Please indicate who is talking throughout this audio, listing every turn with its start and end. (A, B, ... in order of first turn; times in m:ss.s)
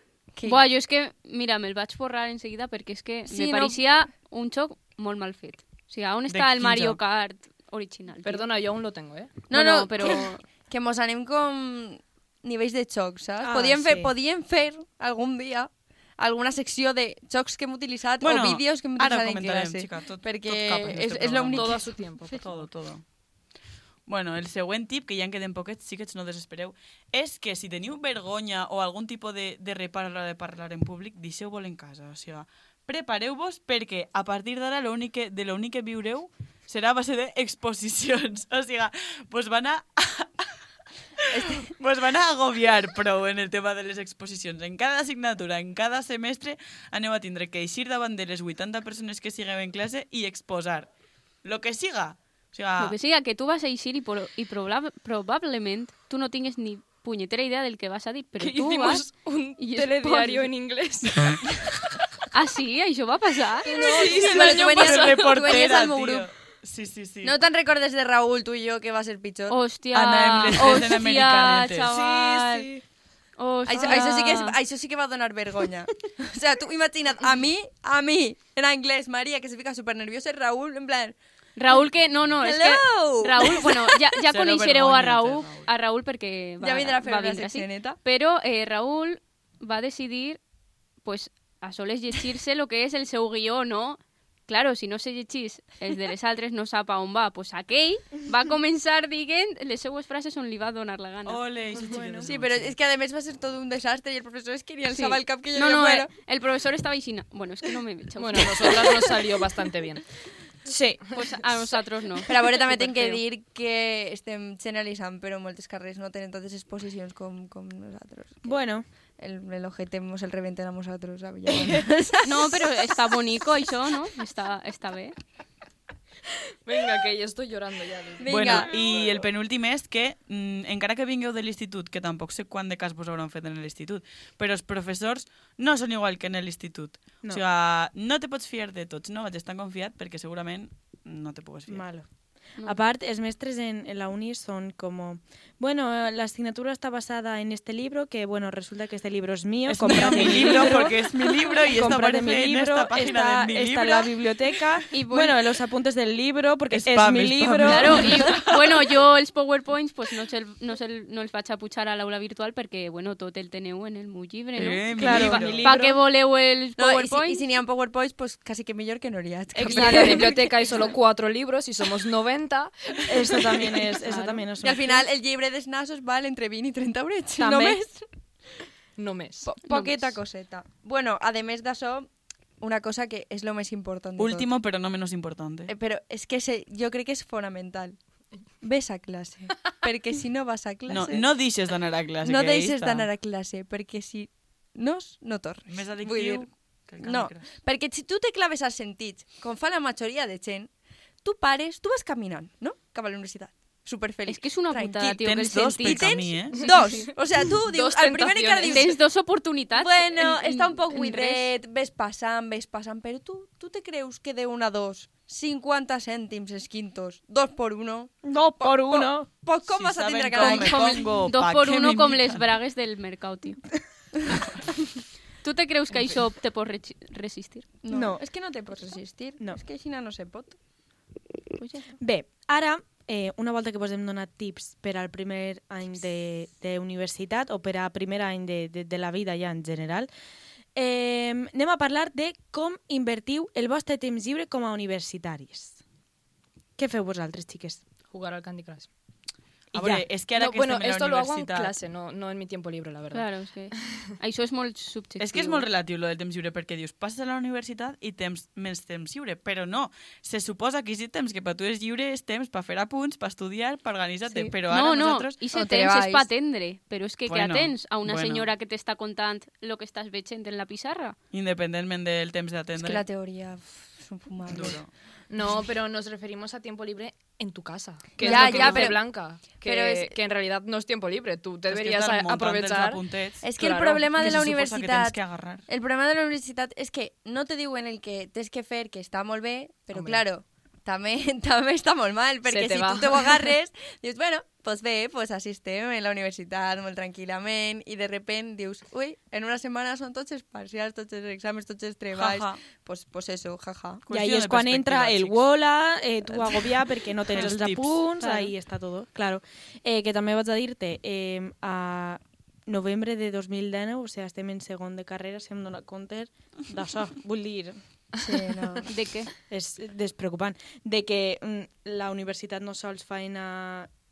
0:00.3-0:00.6 A
0:00.4-0:08.5 B
0:03.3-0:03.8 A
0:06.3-0:07.0 C
0:08.2-0:09.3 D
0:09.5-0:22.4 A
0:09.5-0:10.4 B
0:13.4-0:14.1 E
0:18.2-0:23.0 C
0:21.5-0:22.7 D
0:24.1-0:40.5 C
0:41.2-0:50.9 C
0:41.3-0:41.7 A
0:51.4-0:53.0 C
0:52.8-1:00.5 B
0:58.4-1:01.5 D
1:02.3-1:03.8 B
1:03.6-1:05.4 D
1:03.7-1:06.3 A
1:03.9-1:07.4 C
1:07.2-1:09.6 A
1:09.5-1:12.7 B
1:09.9-1:11.9 C
1:11.9-1:12.8 E
1:13.4-1:14.6 B
1:13.7-1:21.2 A
1:21.6-1:30.4 B
1:22.3-1:24.2 A
1:24.3-1:25.7 C
1:26.6-1:28.0 A
1:31.0-1:41.4 B
1:41.2-1:42.8 C
1:41.8-1:42.3 E
1:42.2-1:46.1 A
1:44.9-1:49.1 B
1:48.2-1:50.0 D
1:50.7-1:51.2 E
1:51.1-1:53.2 B
1:52.2-1:58.6 A
1:58.4-1:58.8 E
1:59.2-2:03.1 A
2:02.2-2:05.2 B
2:06.6-2:08.7 D
2:08.2-2:09.2 A
2:08.3-2:21.8 C
2:21.7-2:38.3 E
2:29.7-2:34.2 C
2:30.1-2:30.4 B
2:34.9-2:35.4 B
2:36.7-2:38.9 C
2:37.6-2:47.4 B
2:44.6-2:45.6 C
2:45.0-2:46.0 E
2:46.8-2:50.9 A
2:49.6-2:50.3 E
2:49.6-2:52.7 D
2:53.1-2:55.1 E
2:54.1-2:54.5 B
2:54.6-2:58.1 A
2:57.4-2:57.8 E
2:59.0-2:59.5 D
2:59.4-3:02.1 A
2:59.6-3:00.2 B
3:02.6-3:04.5 A
3:04.2-3:05.7 C
3:05.7-3:08.0 A
3:08.6-3:11.5 A
3:10.9-3:13.1 C
3:12.2-3:16.5 A
3:15.7-3:17.5 C
3:17.0-3:20.7 A
3:21.2-3:25.3 A
3:24.3-3:26.1 B
3:25.2-3:26.7 C
3:25.8-3:29.0 A
3:27.7-3:29.0 D
3:28.6-3:31.5 B
3:29.7-3:41.1 A
3:38.2-3:39.3 E
3:39.6-3:42.4 C
3:40.4-3:43.6 B
3:45.4-3:47.7 B
3:45.9-3:46.2 D
3:47.8-3:50.6 A
3:47.9-3:48.2 E
3:51.6-3:51.9 B
3:52.0-4:00.1 E
4:00.8-4:05.8 E
4:06.8-4:07.8 E
4:08.1-4:08.9 D
4:09.7-4:11.7 C
4:09.7-4:10.1 E
4:10.4-4:13.3 D
4:13.1-4:15.7 B
4:15.2-4:25.4 C
4:24.3-4:31.2 B
4:25.5-4:26.3 A
4:27.3-4:28.5 C
4:31.3-4:33.0 C
4:32.8-4:34.8 A
4:34.5-4:34.9 C
4:35.3-4:43.0 D
4:38.2-4:39.1 A
4:38.2-4:38.9 B
4:39.6-4:40.2 A
4:41.7-4:43.5 C
4:43.4-5:04.0 A
4:43.6-4:44.1 D
4:44.2-4:45.6 C
4:49.9-4:50.2 D
4:52.5-4:53.5 D
5:02.1-5:02.6 C
5:04.0-5:05.4 C
5:04.1-5:17.8 E
5:07.3-5:08.0 C
5:08.2-5:08.5 B
5:18.2-5:18.9 A
5:18.9-5:19.3 B
5:19.5-5:23.9 E